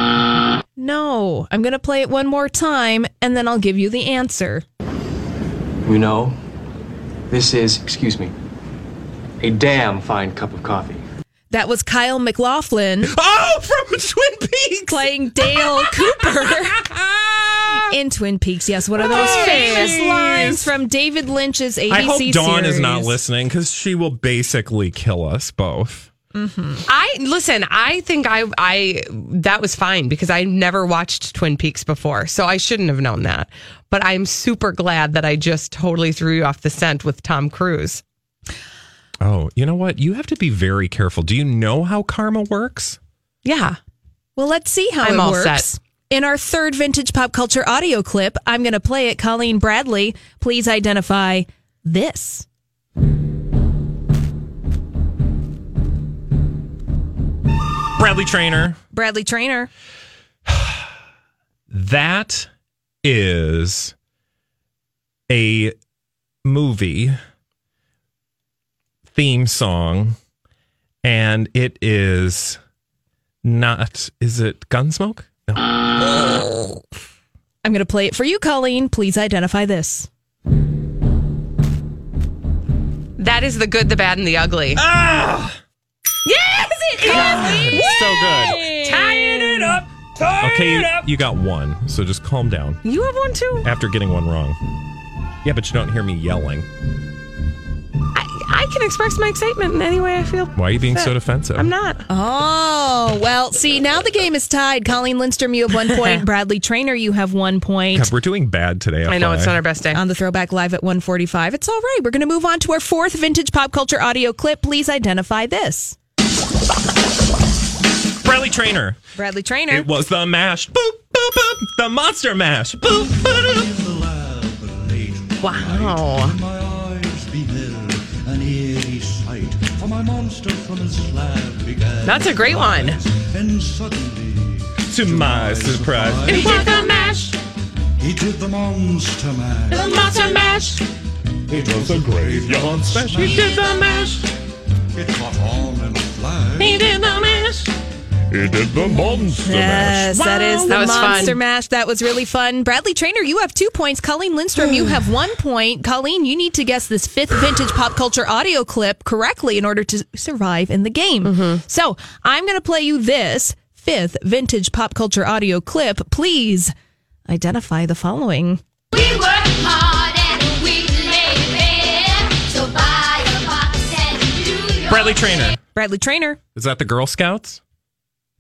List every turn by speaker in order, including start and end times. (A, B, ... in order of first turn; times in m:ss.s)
0:00.8-0:04.6 A
0:05.9-0:06.4 B
0:07.3-0:08.3 B
0:09.4-0:11.0 B
0:11.5-0:13.1 A
0:13.1-0:17.9 C
0:14.9-0:16.8 A
0:17.7-0:23.1 A
0:19.0-0:20.7 C
0:19.2-0:20.0 D
0:21.9-0:26.1 C
0:26.3-0:26.8 A
0:26.9-0:38.0 D
0:39.2-0:43.0 C
0:43.4-0:43.8 D
0:44.4-0:52.5 A
0:45.0-0:45.7 D
0:58.0-0:58.8 C
0:58.9-0:59.7 A
1:00.5-1:00.9 C
1:01.7-1:02.5 C
1:03.0-1:03.9 C
1:05.3-1:05.7 C
1:06.4-1:07.2 C
1:09.1-1:10.2 C
1:11.0-1:12.6 C
1:13.4-1:16.8 C
1:17.6-1:20.1 A
1:23.2-1:24.8 D
1:24.8-1:25.6 C
1:26.2-1:29.8 D
1:27.1-1:32.8 C
1:27.7-1:28.9 A
1:30.5-1:30.9 D
1:32.8-1:33.7 D
1:33.6-1:34.6 C
1:35.4-1:36.7 C
1:38.1-1:42.0 D
1:40.6-1:41.7 C
1:42.1-1:48.1 A
1:45.9-1:46.2 D
1:47.9-1:49.6 C
1:49.1-1:50.0 D
1:49.9-1:56.0 A
1:58.2-1:59.0 C
1:59.2-1:59.9 A
1:59.7-2:03.8 C
2:05.4-2:06.4 D
2:12.0-2:13.0 D
2:14.9-2:17.0 C
2:16.3-2:16.8 D
2:19.7-2:20.8 E
2:19.8-2:20.6 C
2:21.6-2:22.8 F
2:22.3-2:24.2 C
2:23.2-2:24.1 E
2:26.6-2:27.6 C
2:28.4-2:30.0 F
2:28.9-2:46.7 A
2:30.1-2:31.2 C
2:30.6-2:31.4 D
2:41.2-2:41.6 D
2:47.3-2:48.6 A
2:48.9-2:55.6 E
2:54.9-2:55.6 C
2:55.7-2:56.4 A
2:56.6-2:57.6 C